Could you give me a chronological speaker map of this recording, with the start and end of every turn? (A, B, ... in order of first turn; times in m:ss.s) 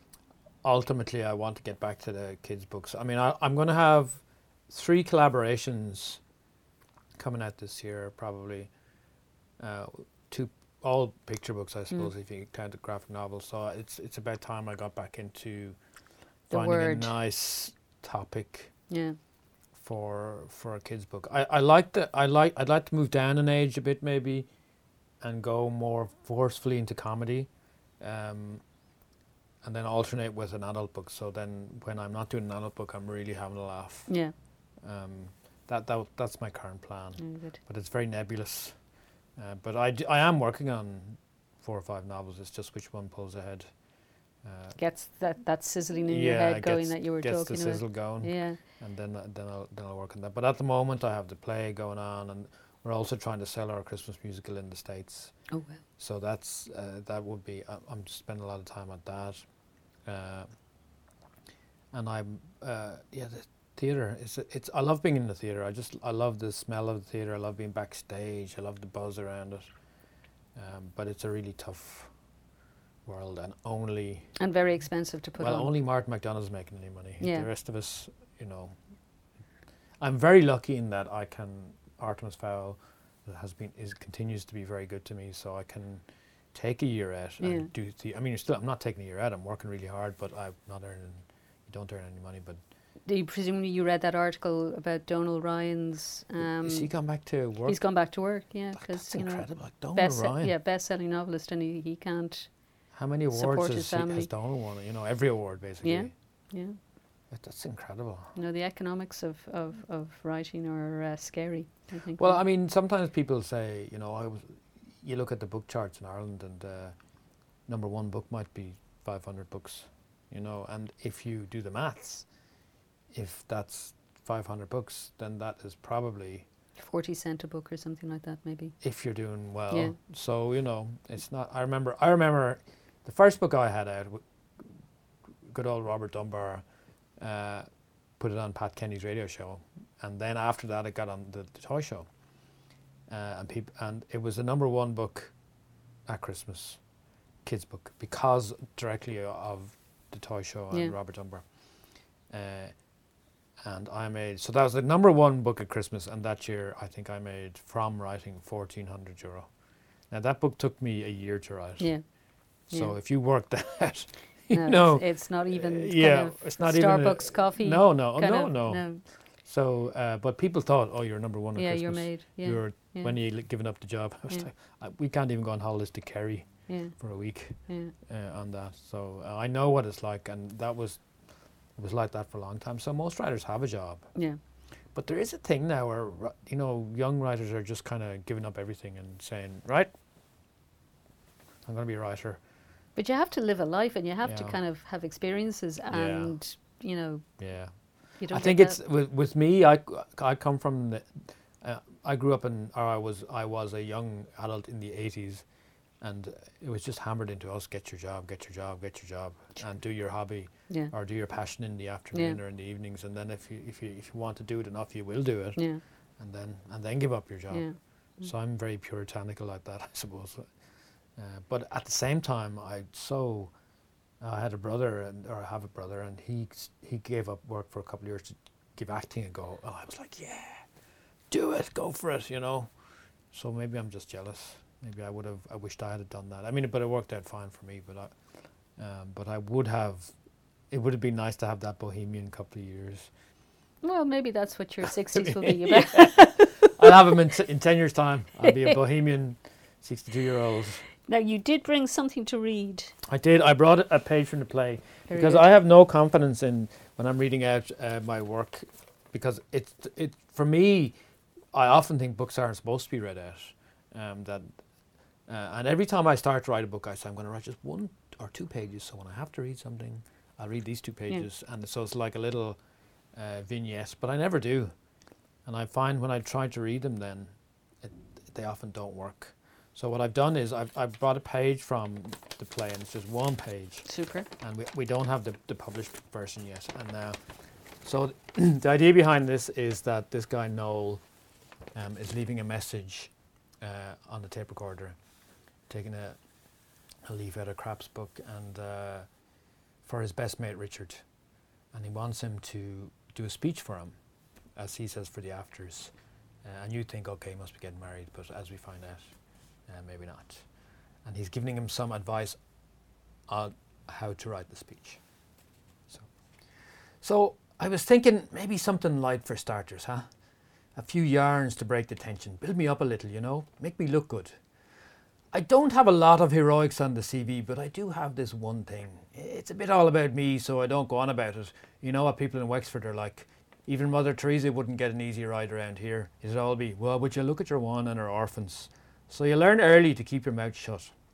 0:00.6-0:06.2 A
0:07.2-0:08.7 A
0:09.6-0:15.8 A
0:16.5-0:18.8 A
0:16.5-0:17.1 B
0:18.9-0:19.2 B
0:19.8-0:24.5 A
0:25.2-0:28.6 A
0:29.6-0:34.3 A
0:34.1-0:34.3 B
0:34.8-0:38.8 A
0:37.2-0:37.6 B
0:39.3-0:43.8 A
0:44.4-0:44.8 A
0:44.8-0:48.6 B
0:46.1-0:59.4 A
0:55.5-0:55.8 B
1:00.0-1:00.5 A
1:01.9-1:09.7 A
1:10.5-1:12.1 A
1:13.0-1:14.3 A
1:14.4-1:15.7 B
1:15.4-1:18.8 A
1:17.2-1:17.5 B
1:20.0-1:32.6 A
1:27.4-1:27.7 B
1:33.0-1:42.7 B
1:36.4-1:40.5 A
1:42.9-1:46.1 A
1:43.3-1:44.3 B
1:45.8-1:46.8 B
1:47.3-1:48.3 A
1:48.3-1:52.4 B
1:52.1-1:57.0 A
1:57.6-2:02.3 A
2:03.1-2:06.4 A
2:06.8-2:08.8 B
2:08.8-2:14.7 A
2:15.4-2:16.6 A
2:17.2-2:17.7 A
2:18.2-2:22.1 A
2:23.1-2:25.3 A
2:26.1-2:26.8 A
2:27.4-2:31.6 A
2:32.3-2:32.8 A
2:33.6-2:39.5 A
2:40.1-2:41.9 A
2:42.6-2:42.9 B
2:42.7-3:01.1 A
2:44.5-2:49.0 B
2:51.6-2:53.2 B
2:56.7-2:57.0 B
2:57.6-2:57.9 B
3:01.7-3:04.1 A
3:04.9-3:09.9 A
3:11.6-3:12.4 A
3:13.0-3:17.4 B
3:14.2-3:14.6 A
3:15.9-3:16.4 A
3:17.4-3:25.4 A
3:18.2-3:18.8 B
3:26.0-3:37.7 A
3:32.1-3:32.4 B
3:37.5-3:38.3 B
3:38.2-3:40.5 A
3:41.2-3:43.5 A
3:44.2-3:50.7 A
3:51.3-3:52.7 A
3:53.3-3:58.2 A
3:58.8-4:00.1 A
4:00.7-4:03.1 A
4:03.8-4:06.9 B
4:05.1-4:10.8 A
4:08.4-4:08.7 B
4:11.0-4:12.9 B
4:13.1-4:21.0 A
4:15.1-4:15.4 B
4:21.5-4:24.6 A
4:25.3-4:32.6 A
4:33.1-4:34.7 A
4:35.4-4:47.2 A
4:43.9-4:44.3 B
4:47.8-4:51.0 A
4:51.7-4:55.0 A
4:55.7-4:56.2 A
4:57.0-4:59.1 A
4:59.8-5:01.0 A
5:01.7-5:03.9 A
5:04.5-5:05.9 A
5:06.4-5:09.1 A
5:09.7-5:10.4 A
5:11.0-5:12.4 A
5:13.3-5:15.0 A
5:17.0-5:20.1 A
5:20.8-5:24.4 A
5:25.3-5:40.9 A